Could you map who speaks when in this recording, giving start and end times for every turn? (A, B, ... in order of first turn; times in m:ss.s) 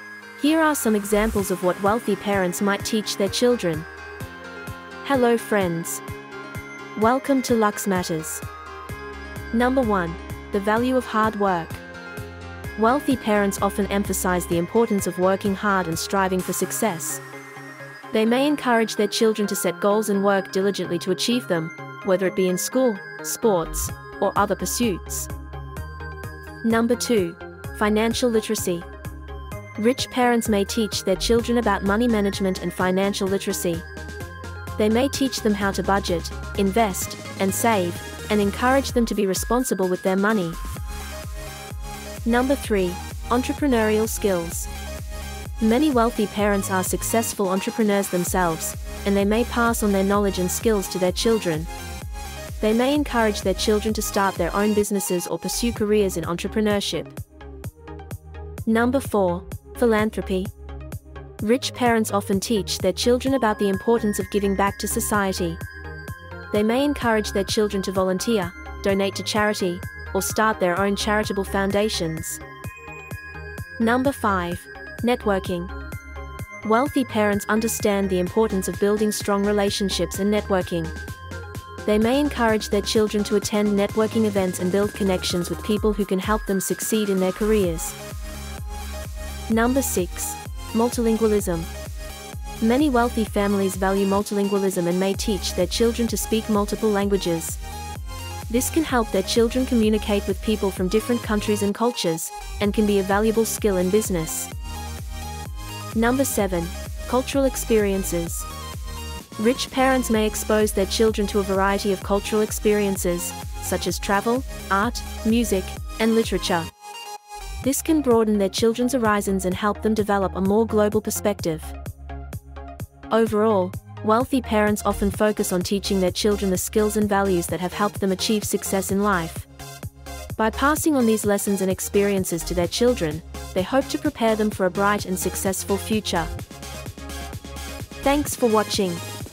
0:00.4-0:03.9 A
0:05.0-0:06.0 A
0:07.0-0:08.4 A
0:09.5-0:11.8 A
0:12.8-0:17.2 A
0:18.1-0:25.3 A
0:26.6-0:28.9 A
0:29.8-0:33.9 A
0:34.8-0:40.6 A
0:42.2-0:44.7 A
0:45.6-0:51.7 A
0:52.6-0:57.2 A
0:58.7-1:00.5 A
1:01.4-1:05.6 A
1:06.5-1:12.4 A
1:13.8-1:15.7 A
1:16.6-1:20.9 A
1:21.8-1:28.0 A
1:29.5-1:31.7 A
1:32.6-1:37.6 A
1:38.5-1:44.5 A
1:46.0-1:48.5 A
1:49.4-1:56.7 A
1:57.6-2:01.7 A
2:03.1-2:09.5 A
2:10.4-2:16.3 A
2:18.0-2:19.0 A